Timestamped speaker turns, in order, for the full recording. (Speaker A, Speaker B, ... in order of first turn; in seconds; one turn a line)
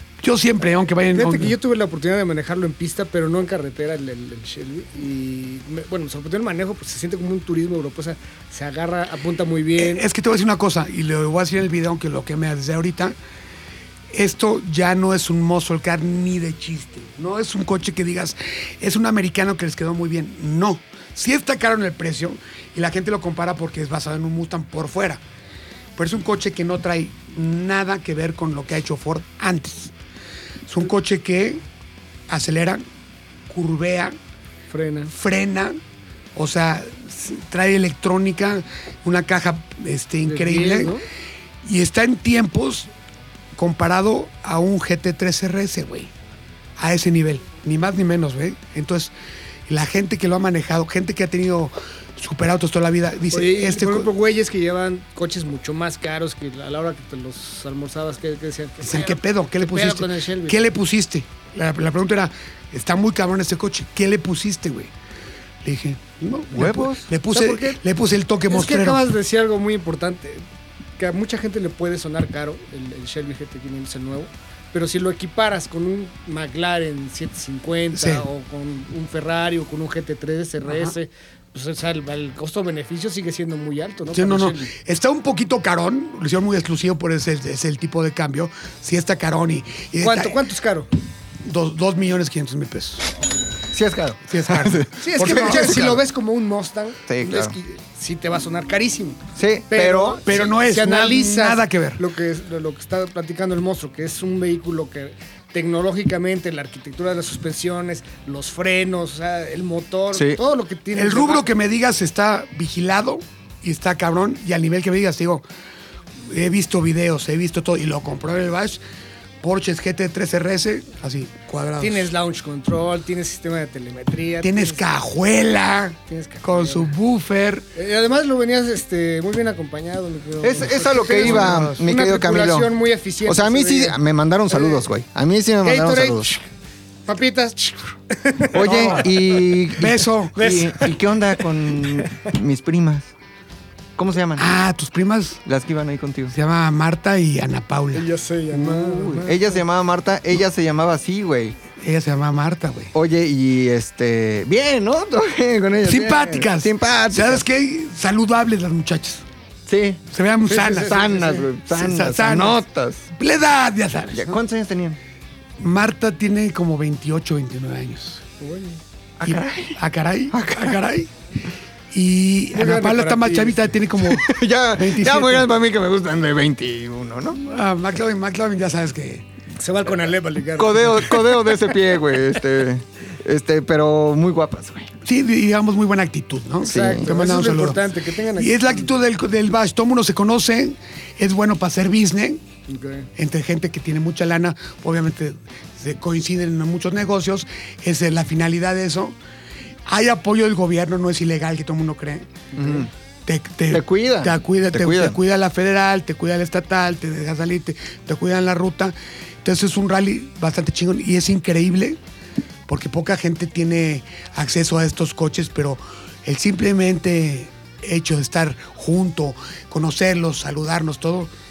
Speaker A: 0.2-1.6
Speaker B: 1.1-10.1
Speaker A: 9.8-13.2
Speaker A: 14.1-25.2
Speaker A: 26.0-29.9
Speaker A: 30.7-31.6
Speaker A: 32.3-32.8
Speaker A: 33.5-34.2
Speaker B: 34.7-35.1
Speaker A: 35.1-35.8
Speaker A: 36.4-41.0
Speaker B: 40.2-41.0
Speaker A: 41.6-42.9
Speaker A: 43.5-46.1
Speaker A: 46.8-49.1
Speaker A: 49.7-54.1
Speaker B: 53.3-60.7
Speaker A: 58.8-64.9
Speaker A: 65.6-69.1
Speaker C: 66.5-67.1
Speaker B: 67.3-67.8
Speaker B: 68.5-70.4
Speaker B: 71.0-84.7
Speaker A: 77.9-78.2
Speaker A: 80.7-81.0
Speaker A: 84.1-90.4
Speaker B: 90.0-90.9
Speaker A: 91.4-93.1
Speaker C: 93.7-96.0
Speaker A: 94.3-96.0
Speaker B: 95.0-111.5
Speaker C: 97.1-97.5
Speaker C: 99.4-100.4
Speaker A: 100.3-102.0
Speaker C: 110.1-110.4
Speaker A: 110.9-115.4
Speaker A: 116.2-118.8
Speaker A: 119.4-122.1
Speaker B: 121.8-124.8
Speaker A: 124.4-127.7
Speaker B: 126.1-126.9
Speaker B: 127.8-134.0
Speaker C: 130.4-136.3
Speaker A: 130.7-131.8
Speaker B: 134.5-134.9
Speaker B: 135.6-136.4
Speaker B: 137.1-139.5
Speaker C: 138.5-143.1
Speaker A: 138.6-139.1
Speaker A: 139.7-140.6
Speaker B: 140.4-141.0
Speaker B: 141.8-142.2
Speaker C: 144.0-144.5
Speaker A: 144.4-145.4
Speaker C: 145.4-146.3
Speaker A: 146.3-148.1
Speaker B: 147.9-149.6
Speaker C: 148.5-151.6
Speaker A: 151.8-152.9
Speaker C: 152.9-157.4
Speaker A: 155.8-159.2
Speaker C: 159.7-160.0
Speaker A: 160.1-164.4
Speaker B: 160.5-161.5
Speaker C: 160.7-163.1
Speaker C: 164.1-165.0
Speaker A: 165.6-168.2
Speaker B: 168.4-168.8
Speaker C: 169.2-169.8
Speaker A: 169.2-171.1
Speaker C: 170.3-170.8
Speaker A: 171.9-175.5
Speaker B: 172.5-173.7
Speaker C: 174.0-177.4
Speaker A: 177.4-179.3
Speaker B: 179.6-181.2
Speaker C: 180.6-184.9
Speaker A: 185.0-192.4
Speaker B: 186.6-188.9
Speaker C: 186.7-187.1
Speaker B: 192.7-193.1
Speaker A: 193.2-199.2
Speaker A: 199.9-202.5
Speaker B: 202.5-202.8
Speaker C: 202.6-202.9
Speaker A: 203.3-212.0
Speaker C: 203.7-205.2
Speaker A: 212.7-221.3